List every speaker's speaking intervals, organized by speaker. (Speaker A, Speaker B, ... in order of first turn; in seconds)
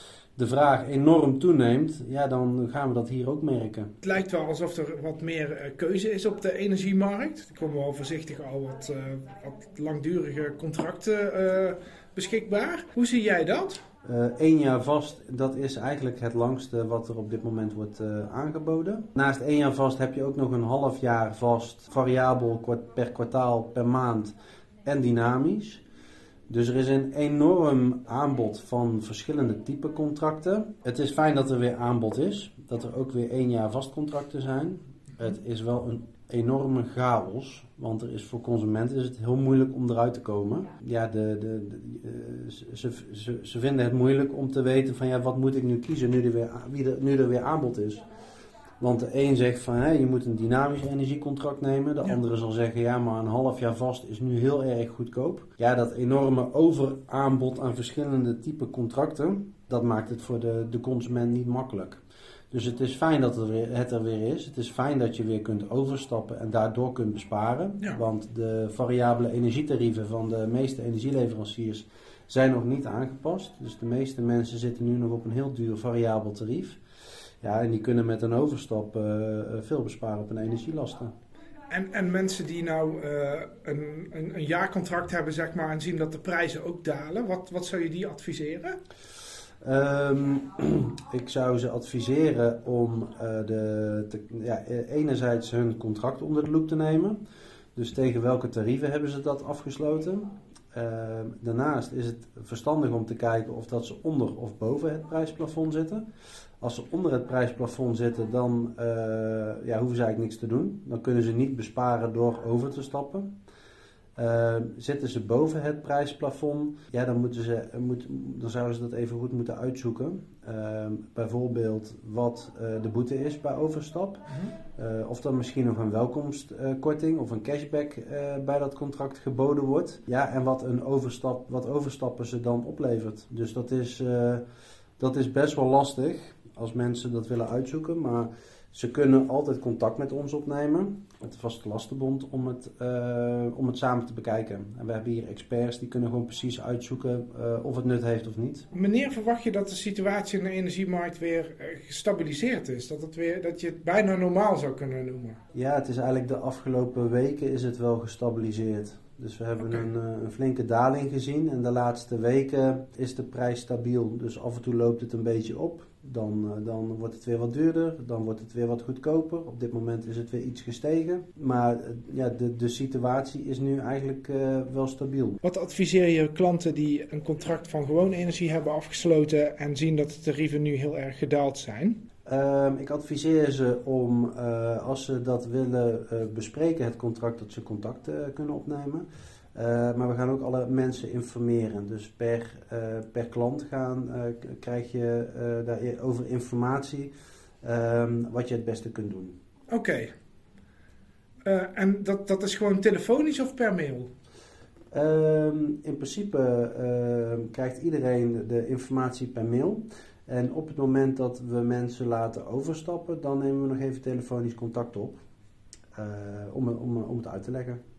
Speaker A: 0.3-3.9, 14.0-24.3, 24.8-25.8, 26.5-48.0, 48.8-62.0, 62.5-76.8, 77.4-81.1, 89.6-97.2, 97.8-106.0, 106.6-113.3, 114.2-134.4, 135.0-148.7, 155.5-175.4, 182.2-199.3, 204.9-215.2, 215.9-217.8
Speaker B: 4.0-13.8, 81.7-88.8, 148.7-155.4, 159.6-159.8, 175.4-182.0, 199.7-200.1, 201.4-204.1